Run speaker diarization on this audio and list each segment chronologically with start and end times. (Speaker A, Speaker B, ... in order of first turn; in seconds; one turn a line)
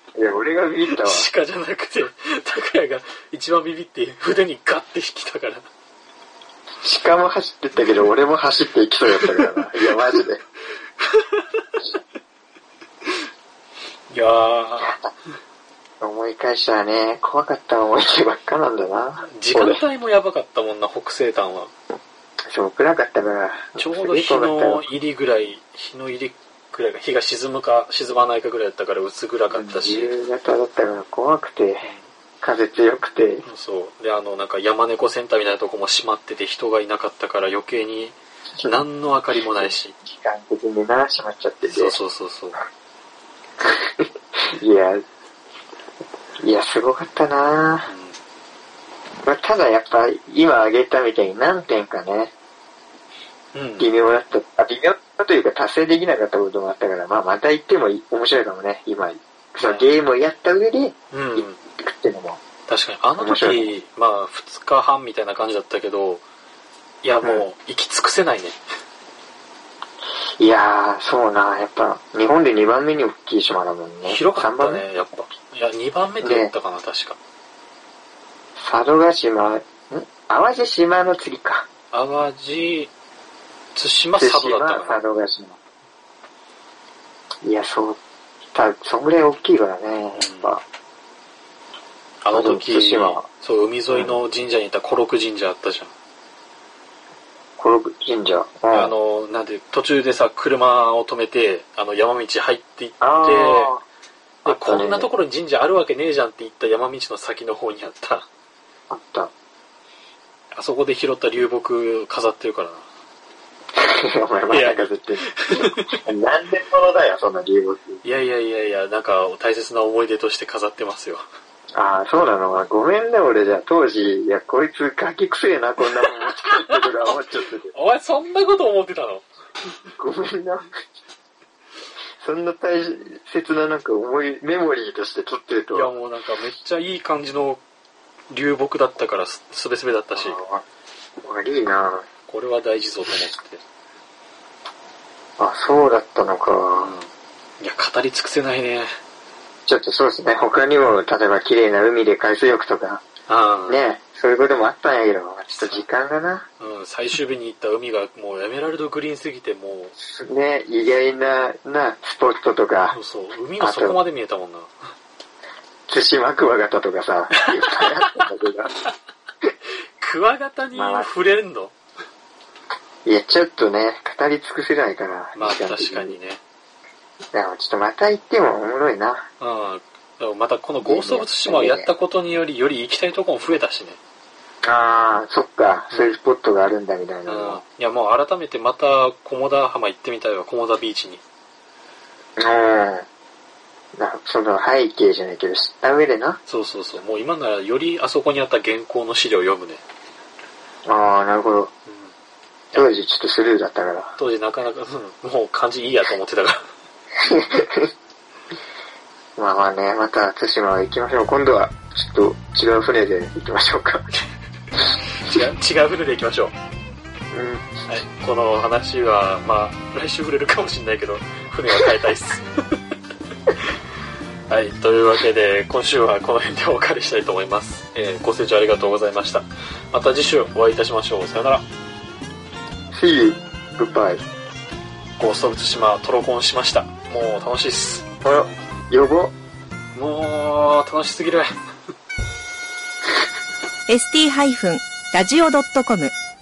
Speaker A: 0.1-1.3
Speaker B: 0.9-5.7
Speaker A: 6.8-10.4
Speaker B: 11.0-11.7
Speaker B: 14.1-15.0
Speaker A: 14.8-15.1
Speaker A: 16.0-19.8
Speaker B: 19.2-21.7
Speaker A: 22.5-24.9
Speaker B: 23.8-30.1
Speaker A: 29.5-33.4
Speaker B: 31.8-32.1
Speaker B: 33.4-39.9
Speaker A: 39.4-42.0
Speaker B: 41.6-42.6
Speaker A: 43.6-45.0
Speaker A: 46.4-47.9
Speaker B: 47.9-48.2
Speaker A: 49.2-52.3
Speaker B: 53.5-53.9
Speaker A: 53.8-62.4
Speaker B: 59.6-59.9
Speaker B: 61.1-61.6
Speaker B: 62.7-66.2
Speaker A: 63.2-63.7
Speaker B: 67.0-68.6
Speaker A: 70.4-74.8
Speaker B: 74.0-77.2
Speaker A: 76.2-76.5
Speaker A: 78.6-81.7
Speaker B: 81.9-82.9
Speaker B: 83.7-85.0
Speaker A: 84.2-85.6
Speaker A: 87.4-88.0
Speaker A: 88.5-90.6
Speaker B: 90.1-90.5
Speaker B: 92.2-95.9
Speaker A: 92.3-93.2
Speaker A: 93.9-94.2
Speaker A: 97.6-98.9
Speaker B: 98.7-103.7
Speaker A: 103.0-103.8
Speaker A: 104.4-105.1
Speaker B: 104.5-108.3
Speaker A: 108.9-109.3
Speaker B: 110.5-112.9
Speaker A: 113.8-118.0
Speaker B: 114.5-116.0
Speaker B: 118.0-121.2
Speaker A: 121.7-127.7
Speaker B: 126.1-127.1
Speaker B: 127.7-129.2
Speaker A: 130.0-130.7
Speaker A: 132.2-135.9
Speaker B: 135.7-137.6
Speaker B: 138.3-140.4
Speaker A: 140.1-140.6
Speaker A: 141.2-142.1
Speaker B: 142.3-143.6
Speaker A: 145.4-146.9
Speaker B: 146.7-147.1
Speaker B: 147.6-148.9
Speaker A: 149.7-153.0
Speaker B: 153.3-153.8
Speaker A: 153.7-156.5
Speaker B: 155.5-155.8
Speaker B: 156.6-159.9
Speaker A: 160.0-163.0
Speaker B: 162.9-164.9
Speaker A: 163.6-164.0
Speaker A: 165.9-168.7
Speaker B: 167.4-168.2
Speaker B: 170.0-171.7
Speaker A: 170.7-171.1
Speaker A: 173.0-176.2
Speaker B: 175.3-176.4
Speaker A: 177.3-179.3
Speaker B: 179.4-184.0
Speaker A: 180.8-181.9
Speaker A: 184.6-187.6
Speaker B: 185.9-186.2
Speaker B: 187.3-191.2
Speaker A: 192.4-193.1
Speaker A: 193.9-196.4
Speaker B: 196.5-199.8
Speaker A: 200.8-201.7
Speaker A: 202.7-204.1
Speaker B: 204.2-206.7
Speaker A: 207.2-207.9
Speaker A: 209.4-214.1
Speaker B: 215.1-216.5
Speaker A: 217.3-217.9
Speaker B: 217.9-222.8
Speaker B: 224.5-231.7
Speaker A: 232.9-234.2
Speaker B: 235.2-238.1
Speaker A: 238.2-239.3
Speaker B: 239.9-241.5
Speaker C: 243.9-246.1